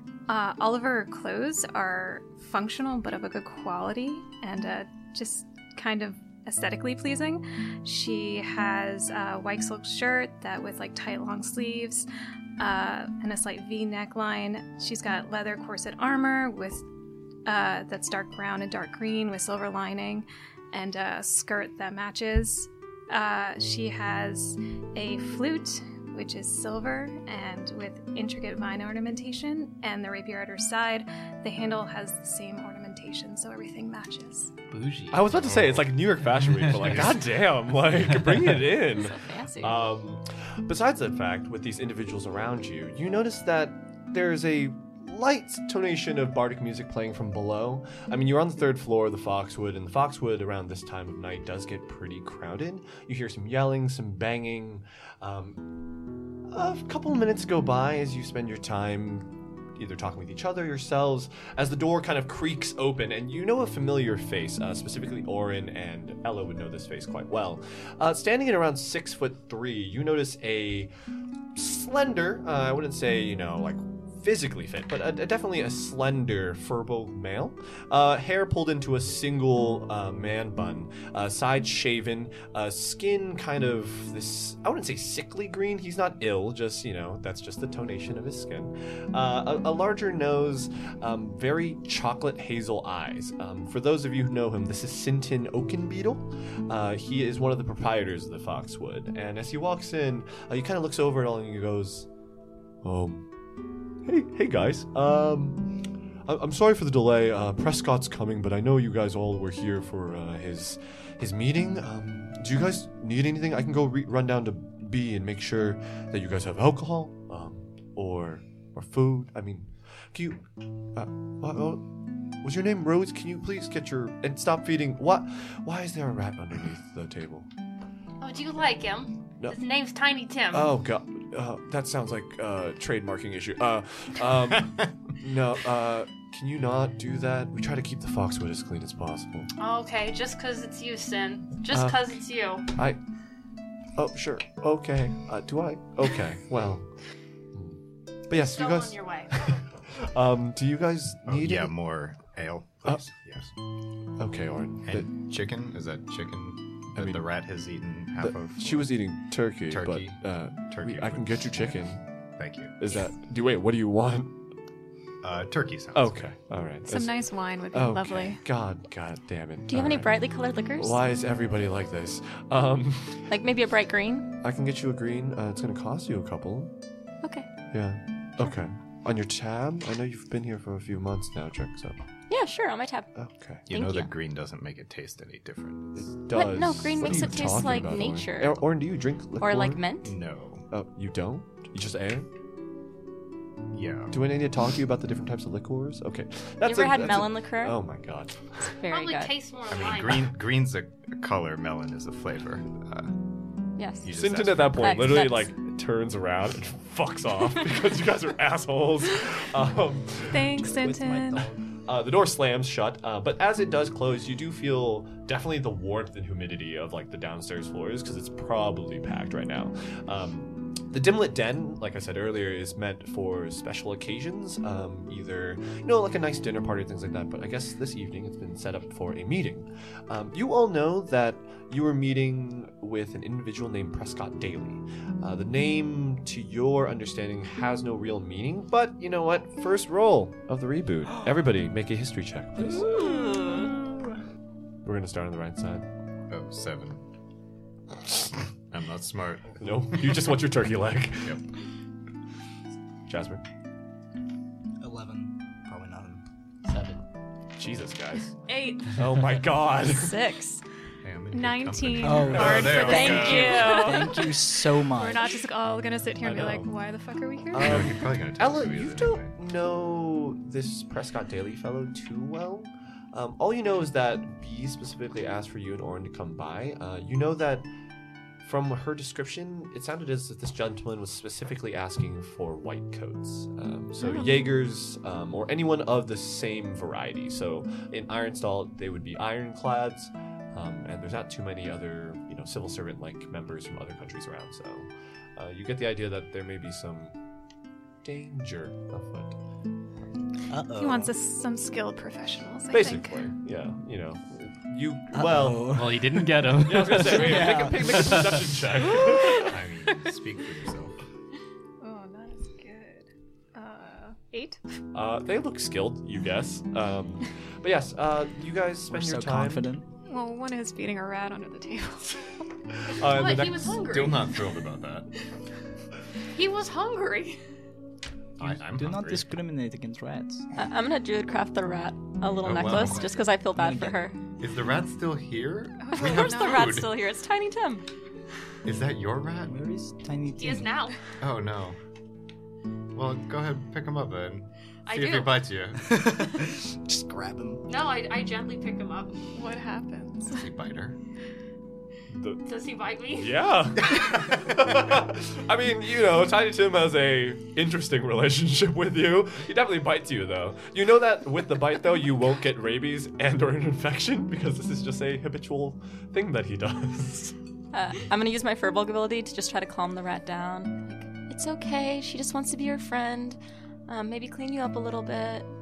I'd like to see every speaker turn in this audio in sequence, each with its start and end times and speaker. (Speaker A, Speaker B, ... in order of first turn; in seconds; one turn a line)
Speaker A: 0.3-12.1
Speaker A: 12.6-16.9
Speaker A: 17.5-34.5
Speaker B: 34.7-35.3
Speaker C: 35.1-55.6
Speaker D: 35.3-35.9
Speaker E: 39.0-39.8
Speaker C: 56.5-70.9
Speaker C: 71.5-102.1
Speaker C: 102.8-103.3
Speaker C: 104.0-120.4
Speaker C: 120.9-121.9
Speaker C: 122.4-127.5
Speaker F: 128.2-130.7
Speaker C: 130.5-139.5
Speaker F: 139.6-142.7
Speaker C: 141.7-142.2
Speaker C: 142.7-143.0
Speaker C: 144.0-146.9
Speaker C: 147.5-151.8
Speaker F: 148.4-149.5
Speaker D: 151.3-153.5
Speaker C: 154.2-155.1
Speaker D: 154.8-159.0
Speaker C: 156.9-157.3
Speaker C: 158.2-162.0
Speaker D: 159.7-161.9
Speaker D: 162.4-162.8
Speaker C: 162.8-164.3
Speaker D: 165.2-166.2
Speaker C: 165.9-170.2
Speaker A: 166.9-168.4
Speaker E: 169.7-171.0
Speaker C: 170.8-173.3
Speaker E: 173.3-174.3
Speaker C: 174.4-176.7
Speaker E: 177.2-177.5
Speaker C: 177.7-182.0
Speaker E: 182.3-183.1
Speaker C: 183.2-183.7
Speaker D: 183.7-186.1
Speaker E: 183.7-184.1
Speaker C: 185.9-189.8
Speaker E: 186.3-188.7
Speaker E: 189.4-190.1
Speaker D: 190.0-190.7
Speaker C: 190.7-192.3
Speaker D: 193.7-194.2
Speaker C: 194.1-198.8
Speaker E: 196.7-197.8
Speaker E: 198.8-199.3
Speaker F: 198.9-200.3
Speaker D: 199.7-203.1
Speaker E: 203.8-204.1
Speaker D: 204.0-205.0
Speaker C: 204.1-210.8
Speaker E: 204.8-205.5
Speaker A: 210.3-211.5
Speaker G: 210.6-211.5
Speaker C: 211.9-242.9
Speaker E: 242.8-243.7
Speaker C: 244.8-245.9
Speaker D: 246.3-247.0
Speaker D: 248.7-250.3
Speaker C: 249.6-251.4
Speaker C: 253.1-253.4
Speaker G: 254.8-256.2
Speaker B: 256.6-257.0
Speaker C: 257.6-258.4
Speaker A: 258.5-260.6
Speaker C: 258.9-260.2
Speaker D: 261.0-263.8
Speaker A: 261.3-267.9
Speaker G: 262.0-265.4
Speaker E: 262.8-264.2
Speaker D: 266.2-266.6
Speaker C: 267.5-277.7
Speaker D: 267.6-269.3
Speaker C: 278.4-297.1
Speaker C: 298.0-299.4
Speaker G: 300.5-301.1
Speaker A: 300.8-303.2
Speaker C: 302.7-305.8
Speaker G: 305.1-306.2
Speaker B: 305.6-308.5
Speaker C: 306.6-309.6
Speaker G: 307.1-308.1
Speaker D: 308.9-310.9
Speaker A: 311.8-314.6
Speaker C: 314.9-319.7
Speaker G: 318.9-319.9
Speaker A: 320.1-322.4
Speaker C: 322.8-323.8
Speaker F: 323.1-324.4
Speaker D: 323.8-325.1
Speaker F: 326.3-327.4
Speaker D: 328.4-329.3
Speaker G: 328.4-330.5
Speaker E: 330.6-334.2
Speaker D: 332.4-333.3
Speaker G: 333.6-334.1
Speaker D: 334.4-336.9
Speaker A: 335.8-336.8
Speaker E: 335.9-337.9
Speaker D: 338.6-339.5
Speaker G: 339.5-340.7
Speaker F: 340.4-341.0
Speaker D: 341.2-341.8
Speaker D: 342.9-345.9
Speaker F: 344.9-345.5
Speaker G: 345.8-347.6
Speaker F: 347.7-349.3
Speaker A: 349.4-350.4
Speaker D: 350.3-351.0
Speaker C: 352.1-352.5
Speaker F: 352.4-353.4
Speaker C: 353.1-367.4
Speaker D: 353.9-354.4
Speaker E: 367.7-375.5